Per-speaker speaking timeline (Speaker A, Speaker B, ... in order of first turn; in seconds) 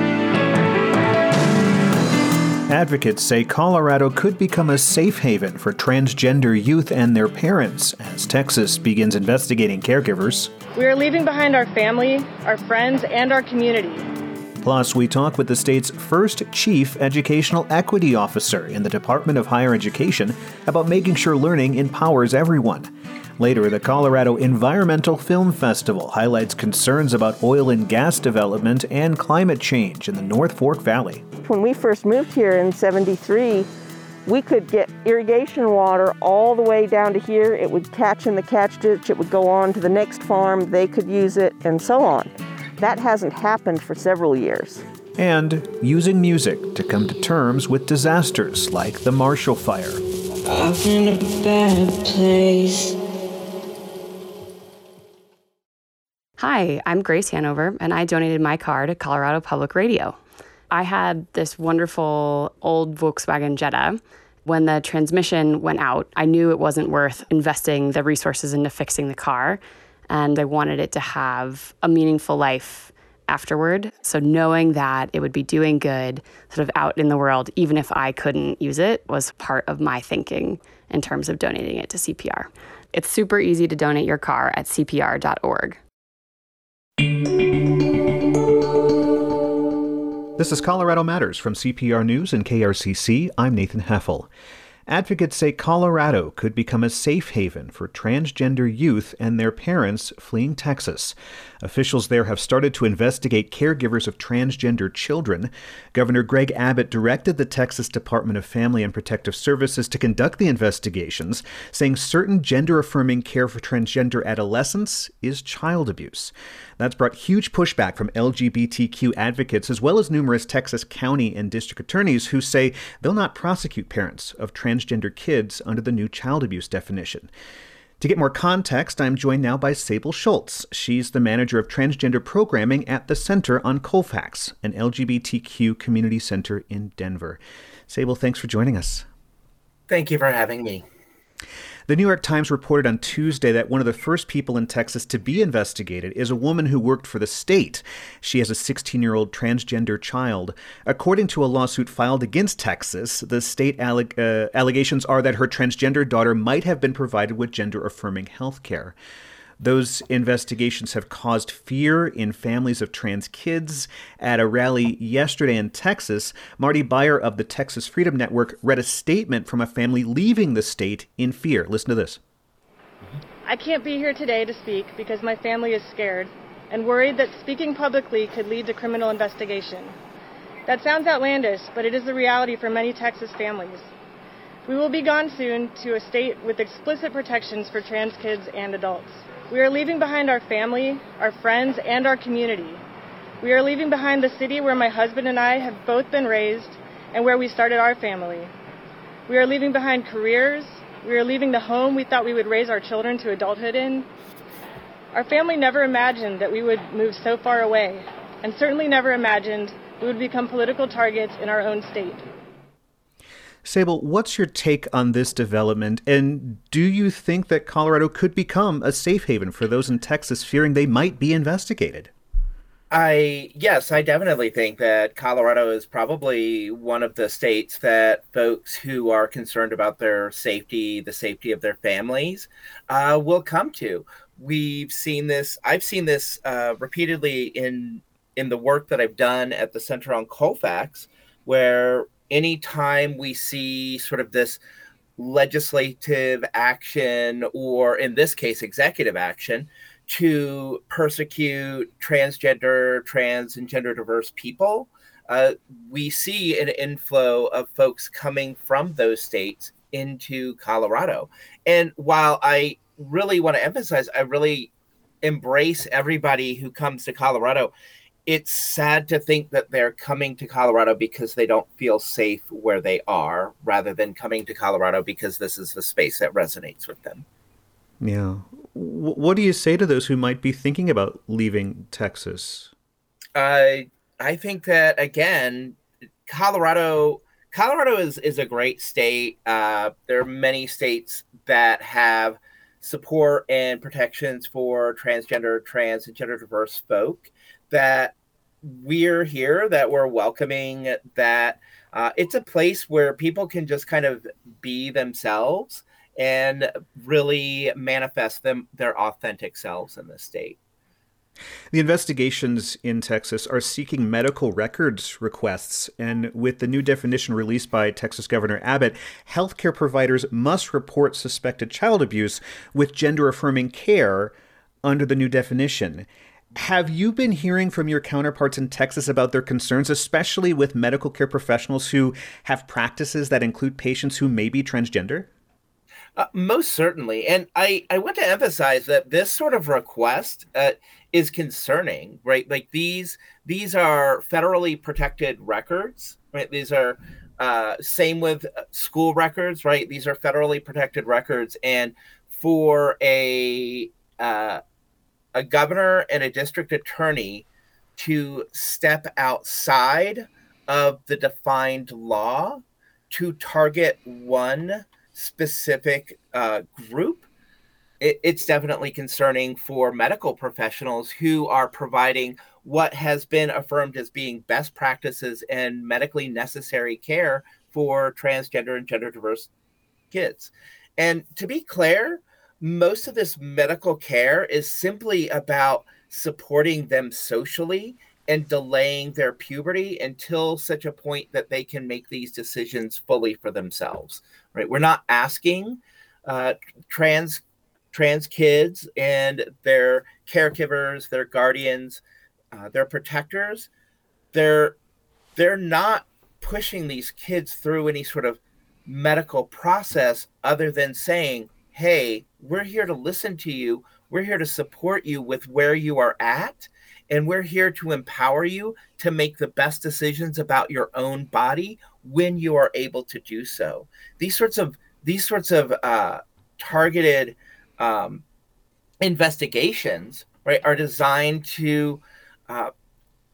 Speaker A: 2.7-10.5, 14.6-31.2, 45.2-50.0, 90.4-94.3, 94.9-127.3, 128.0-139.0, 141.9-158.9, 159.6-172.2, 213.6-222.1, 278.0-282.7, 311.7-335.3
Speaker B: 10.7-14.1, 173.4-179.9, 180.7-183.9, 184.7-192.8, 193.4-198.5, 199.3-204.1, 205.1-212.2
Speaker C: 31.4-33.7, 34.2-44.8
Speaker D: 50.5-52.9
Speaker E: 56.4-60.2, 60.7-85.8
Speaker F: 139.9-140.8, 222.9-244.6, 245.2-264.7, 265.2-267.7, 268.2-277.2, 283.3-310.6, 336.2-354.6, 355.3-357.4, 358.0-367.2, 368.0-379.5, 380.1-397.4, 397.9-402.0, 402.5-403.7, 404.3-404.8, 405.4-428.2, 429.0-432.7